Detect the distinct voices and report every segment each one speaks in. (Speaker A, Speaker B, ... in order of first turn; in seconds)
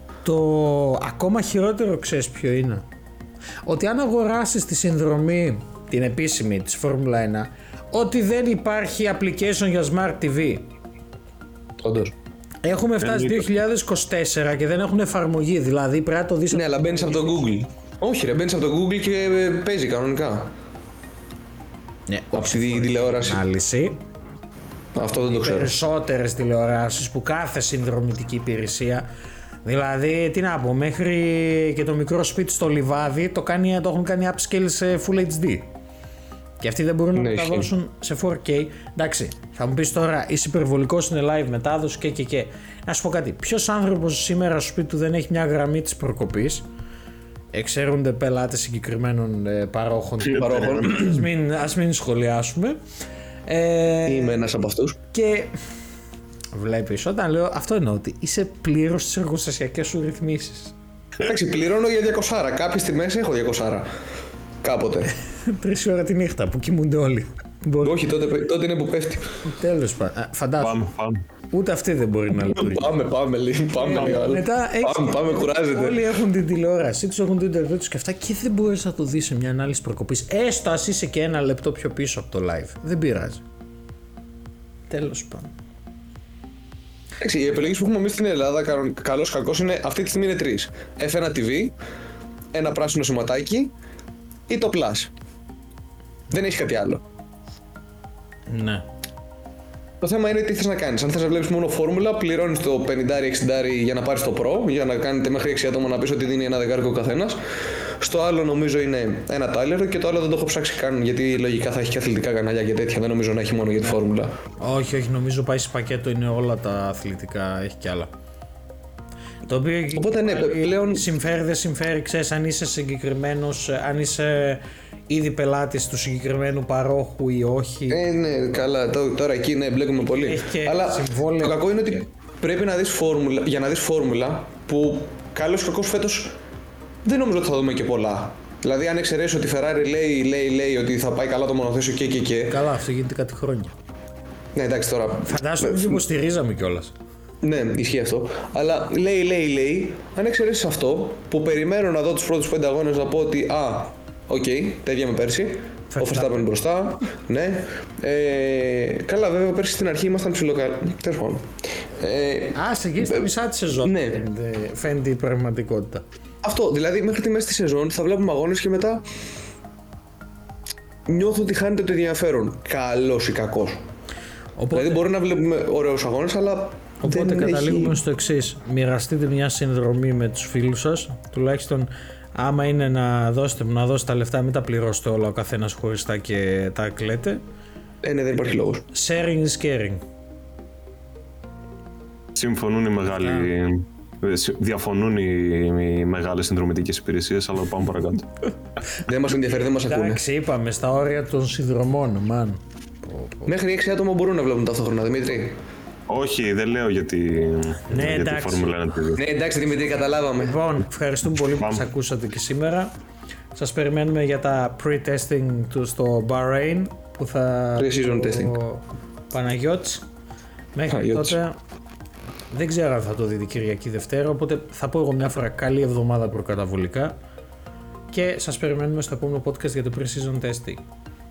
Speaker A: 0.2-2.8, 3.6-10.7, 12.6-17.3, 22.1-24.0, 25.3-29.1, 29.6-35.7, 36.6-46.6, 47.5-52.8, 53.5-54.5, 55.1-55.5, 56.5-60.8, 65.5-68.0, 69.4-70.8, 71.5-73.0, 73.8-83.4, 84.9-85.5, 98.5-98.8, 114.6-118.1, 119.5-128.7, 130.0-131.6, 142.5-143.7, 145.3-146.9, 155.9-156.5, 162.5-166.0, 174.6-175.0, 177.0-187.4, 188.9-190.0, 193.1-193.5, 199.8-203.5, 207.9-208.7, 210.4-212.9, 213.5-220.0, 220.7-221.6, 222.5-227.1, 228.1-230.8
Speaker B: 11.8-12.1, 16.5-20.5, 22.3-23.4, 24.9-25.8, 37.1-37.7, 50.4-51.2, 54.0-55.0, 61.2-63.9, 64.6-65.1, 67.8-69.3, 72.3-76.0, 87.2-91.7, 92.5-93.7, 94.5-95.1, 96.3-97.0, 100.0-107.4, 108.0-114.3, 119.9-121.0, 127.9-136.3, 137.0-142.6, 144.5-146.0, 147.4-161.4, 162.0-163.2, 163.8-164.3, 166.4-169.0, 171.1-173.8, 174.7-178.0, 188.0-188.8, 199.1-200.2, 203.5-205.6, 209.2-210.6, 217.8-218.6, 220.9-221.3
Speaker C: 13.0-13.5, 50.2-50.9, 70.6-71.2, 192.3-198.2, 206.1-209.2, 211.6-211.8